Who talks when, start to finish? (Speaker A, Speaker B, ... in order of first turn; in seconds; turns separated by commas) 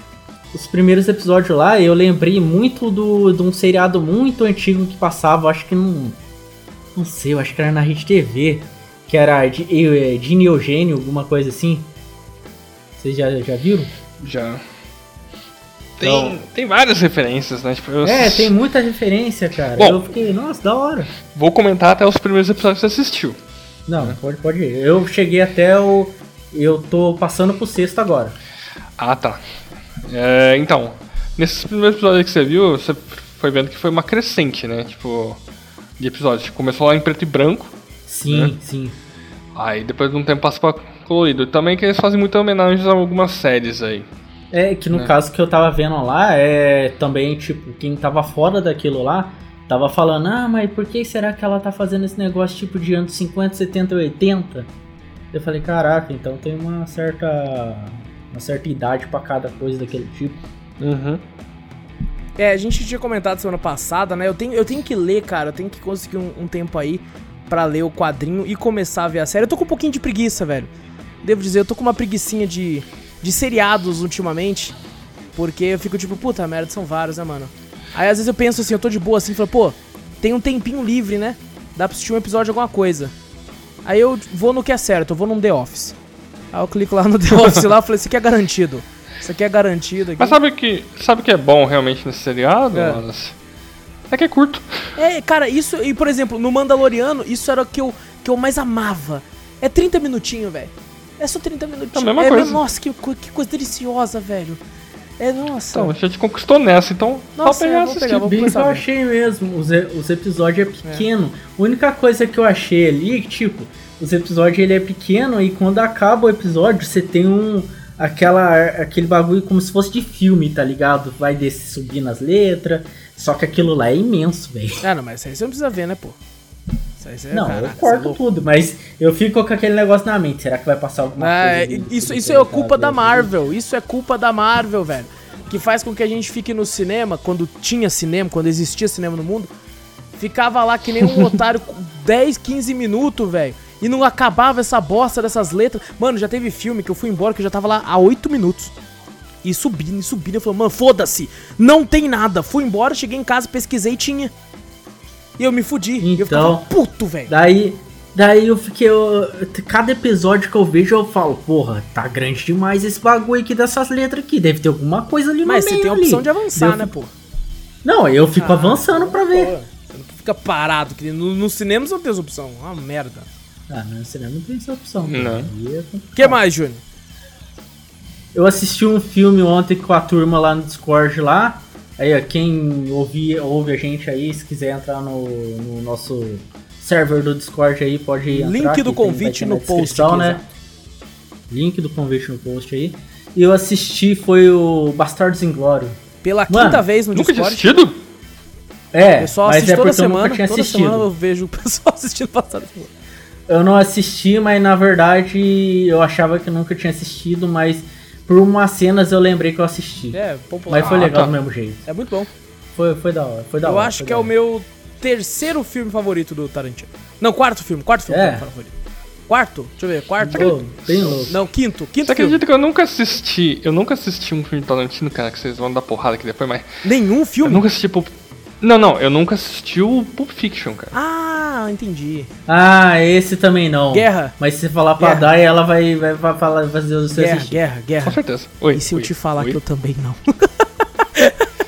Speaker A: 0.5-6.2, Speaker A: 6.9-11.9, Speaker A: 13.0-13.9, Speaker B: 14.2-14.6, Speaker B: 16.0-18.5, Speaker A: 16.0-16.4, Speaker A: 18.0-21.1, Speaker B: 19.8-20.0, Speaker B: 21.2-23.4, Speaker A: 23.9-28.3, Speaker B: 29.0-35.4, Speaker B: 36.0-37.7, Speaker A: 38.1-39.0, Speaker B: 39.5-44.1, Speaker A: 44.5-54.7, Speaker A: 55.3-60.4, Speaker B: 60.8-61.2, Speaker C: 62.4-70.7, Speaker C: 71.2-74.8, Speaker C: 75.3-83.1, Speaker C: 83.8-86.0, Speaker C: 86.5-90.4, Speaker B: 90.2-93.3, Speaker C: 92.7-93.0, Speaker B: 94.1-95.0, Speaker C: 95.0-104.6, Speaker B: 101.9-102.6, Speaker C: 105.2-105.9, Speaker B: 105.7-108.2, Speaker C: 107.4-108.8, Speaker A: 108.1-124.8, Speaker C: 124.8-126.2, Speaker C: 127.0-128.2, Speaker A: 127.3-133.3, Speaker C: 131.2-139.5, Speaker C: 140.1-148.7, Speaker C: 149.4-154.3, Speaker C: 155.4-157.3, Speaker A: 156.0-156.7, Speaker A: 157.3-166.9, Speaker C: 165.4-167.1, Speaker A: 167.8-169.5, Speaker C: 168.4-173.3, Speaker A: 173.7-176.4, Speaker B: 175.1-175.5, Speaker C: 176.2-176.8, Speaker A: 178.3-190.4, Speaker C: 188.3-190.5, Speaker A: 191.5-196.8, Speaker C: 196.2-197.8, Speaker B: 197.1-198.0, Speaker A: 198.9-201.1, Speaker C: 199.2-202.9, Speaker A: 203.5-211.8, Speaker C: 210.1-211.3, Speaker B: 210.8-211.3, Speaker C: 211.8-212.3, Speaker A: 212.7-214.3, Speaker C: 213.6-218.7, Speaker A: 218.1-218.4, Speaker C: 219.3-220.6, Speaker A: 220.2-221.3, Speaker B: 220.3-221.3, Speaker C: 221.2-222.4, Speaker B: 222.0-226.7, Speaker C: 226.8-227.6, Speaker B: 227.4-230.9, Speaker C: 230.9-232.3, Speaker A: 232.5-237.6, Speaker C: 233.9-234.3, Speaker C: 235.0-235.3, Speaker C: 237.1-238.2, Speaker B: 238.0-239.6, Speaker C: 238.7-241.5